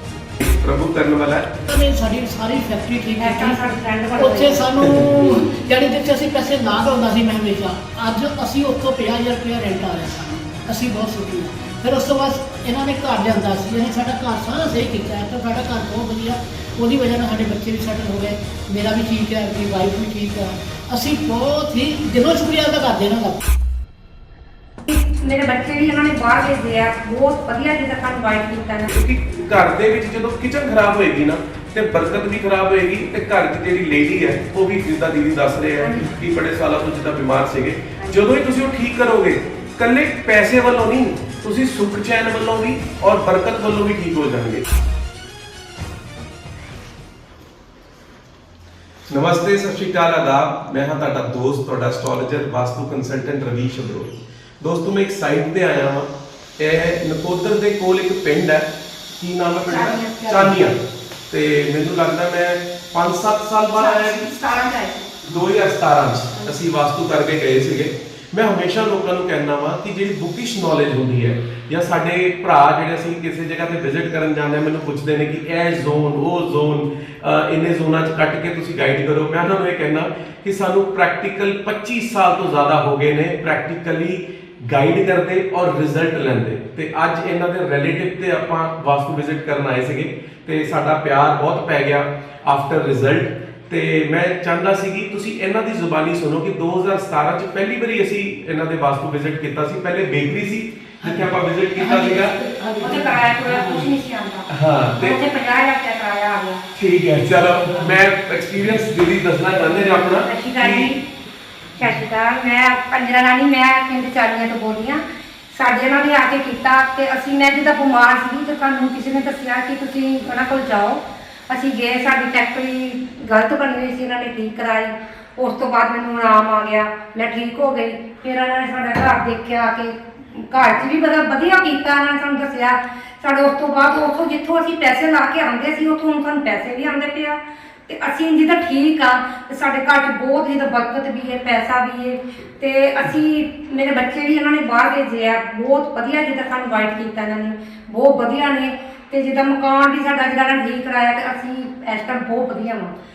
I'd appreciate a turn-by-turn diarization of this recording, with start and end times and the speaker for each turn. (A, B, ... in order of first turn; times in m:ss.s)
0:00.4-0:01.4 A
0:01.7-0:03.6 B
0:03.2-0:04.7 C
0:04.2-0:23.4 B
0:04.8-0:05.4 A
0:24.8-0:28.9 C
0:28.9-0:44.6 A
0:35.8-0:36.1 C
0:38.0-0:38.3 C
0:49.1-1:00.8 A
0:59.7-1:00.7 C
1:01.3-1:04.3 A
1:03.8-1:05.2 C
1:05.3-1:42.4 A
1:41.0-1:43.9 B
1:42.8-1:46.6 C
1:44.5-1:45.2 A
1:46.7-1:50.9 A
1:47.6-1:48.0 B
1:50.0-1:51.0 C
1:51.8-1:55.0 C
1:55.5-2:32.9 C